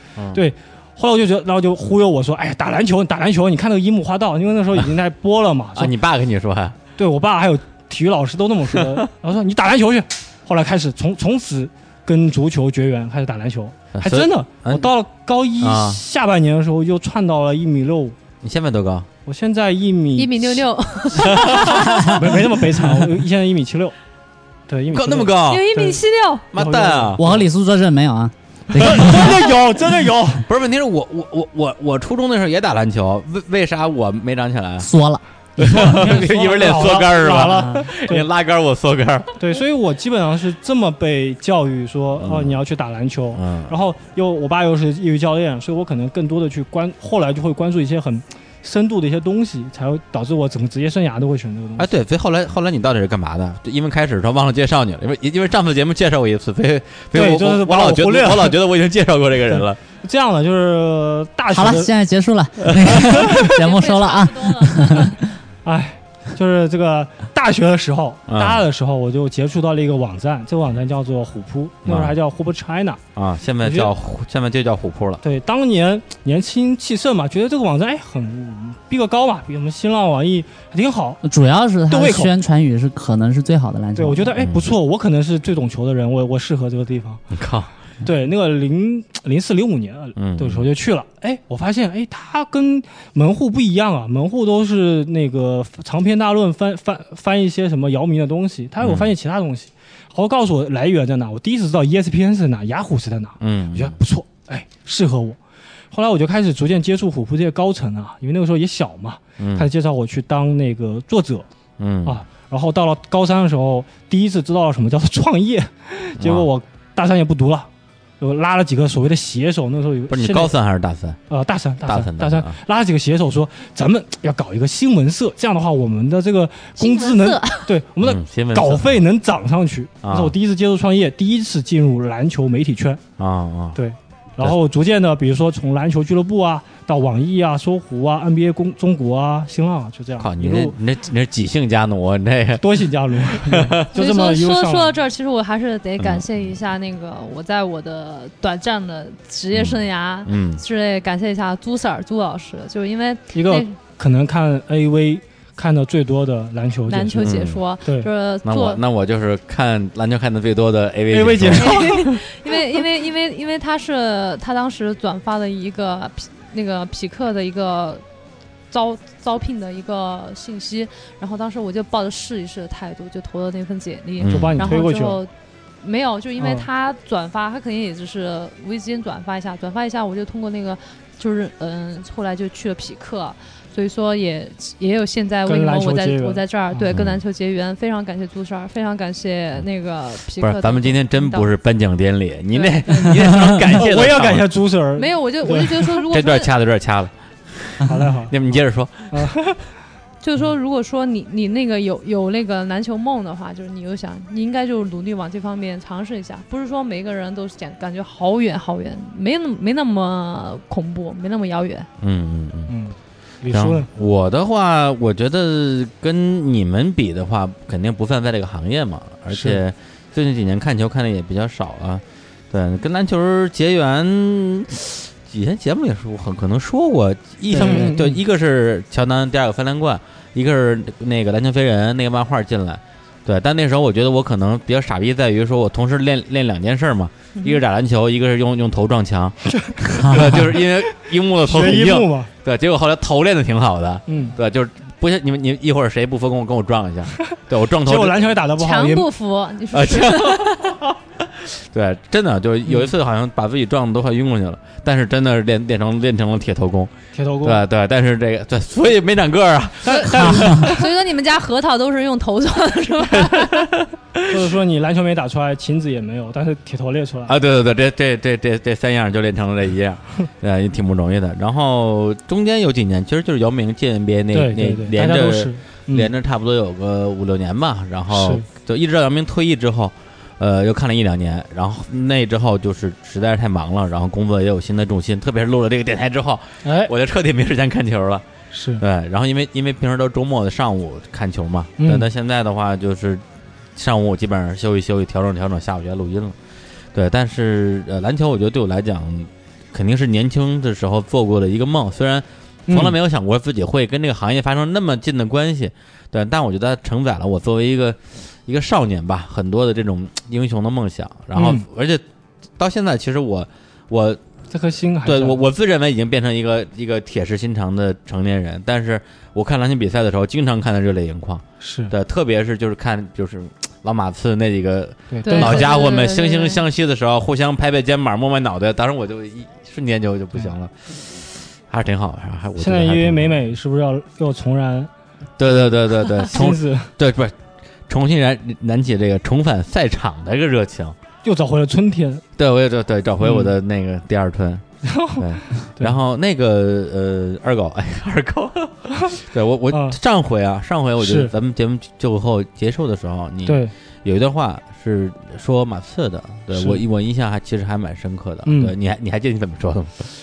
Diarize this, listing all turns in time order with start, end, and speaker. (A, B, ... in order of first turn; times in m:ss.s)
0:00.2-0:00.4 A
0:00.3-0:05.9 B
0:05.8-0:06.8 A
0:07.0-0:18.2 B
0:13.9-0:14.9 A
0:15.6-0:16.0 A
0:18.4-0:19.1 A
0:19.3-0:23.9 B
0:20.2-0:21.9 C
0:21.3-0:21.6 A
0:24.7-0:26.0 B
0:24.9-0:25.7 A
0:25.5-0:26.4 C
0:26.5-0:27.2 A
0:26.5-0:27.4 B
0:27.2-0:29.2 D
0:28.7-0:30.4 B
0:30.4-0:34.9 A
0:34.8-0:35.2 D
0:35.6-0:38.3 B
0:35.6-0:39.4 A
0:39.4-0:51.9 B
0:42.2-0:42.6 A
0:43.3-0:43.7 A
0:51.8-0:59.8 A
0:57.1-0:58.6 B
0:59.5-1:01.9 B
1:01.5-1:05.2 D
1:03.4-1:05.1 C
1:05.6-1:13.0 B
1:08.3-1:08.6 A
1:11.8-1:12.2 A
1:13.2-1:15.2 A
1:13.6-1:13.9 B
1:15.2-1:21.2 B
1:21.2-1:24.4 D
1:21.9-1:22.3 B
1:24.0-1:27.2 B
1:24.4-1:24.7 A
1:27.3-1:27.7 A
1:28.0-1:45.4 B
1:30.2-1:30.7 A
1:38.8-1:39.1 A
1:43.4-1:44.0 A
1:45.9-1:51.5 B
1:49.4-1:49.7 A
1:51.8-1:52.2 A
1:52.0-1:57.7 B
1:56.2-1:56.5 A
1:58.2-2:00.6 B
2:00.1-2:01.2 A
2:01.3-2:13.0 B
2:01.9-2:02.5 A
2:06.8-2:07.7 C
2:08.0-2:09.0 A
2:10.0-2:10.3 A
2:13.2-2:13.8 A
2:13.7-2:20.7 B
2:20.2-2:23.9 A
2:22.6-2:24.9 B
2:23.9-2:33.8 C
2:26.0-2:26.5 A
2:29.5-2:30.6 A
2:33.3-2:38.1 B
2:36.9-2:38.8 C
2:37.2-2:37.6 A
2:38.4-2:41.8 A
2:41.1-2:42.5 B
2:41.5-2:48.0 C
2:48.7-2:55.3 C
2:54.2-2:54.6 A
2:54.2-2:55.2 B
2:55.8-3:11.5 C
2:56.4-2:56.7 B
3:05.4-3:06.9 B
3:06.9-3:07.2 A
3:10.4-3:14.5 A
3:12.5-3:13.5 C
3:13.7-3:16.0 B
3:15.0-3:16.5 C
3:16.1-3:19.4 A
3:17.8-3:18.4 B
3:19.1-3:19.6 B
3:20.2-3:31.9 C
3:32.0-3:32.7 A
3:32.7-3:33.9 B
3:33.5-4:08.3 A
3:39.3-3:39.6 B
3:47.5-3:48.2 B
3:59.6-4:00.7 B
4:01.4-4:02.3 B
4:04.1-4:04.4 B
4:07.8-4:09.1 B
4:08.6-4:10.8 C
4:09.7-4:10.8 A
4:11.4-4:20.7 A
4:17.1-4:17.6 B
4:19.8-4:20.9 B
4:20.1-4:23.7 C
4:23.2-4:24.4 A
4:24.3-4:27.4 B
4:27.3-4:48.2 A
4:34.3-4:36.1 B
4:38.1-4:38.4 B
4:46.6-4:46.9 B
4:48.5-4:48.8 B
4:48.8-4:53.2 A
4:51.8-4:52.1 B
4:53.8-4:56.4 A
4:56.9-5:12.0 A
5:02.7-5:03.0 B
5:11.4-5:11.6 B
5:12.6-5:14.2 A
5:14.5-5:15.4 B
5:15.0-5:33.4 A
5:21.6-5:21.9 B
5:25.1-5:25.8 B
5:25.2-5:26.6 C
5:32.6-5:34.9 B
5:35.4-5:37.3 A
5:35.4-5:36.9 B
5:37.9-5:40.9 A
5:41.2-5:42.2 B
5:42.4-5:44.6 A
5:43.2-5:43.5 B
5:44.8-5:45.9 B
5:45.2-6:00.1 A
5:49.7-5:50.0 B
5:51.0-5:51.3 B
5:53.4-5:53.7 B
5:56.5-5:56.8 B
5:58.4-5:58.7 B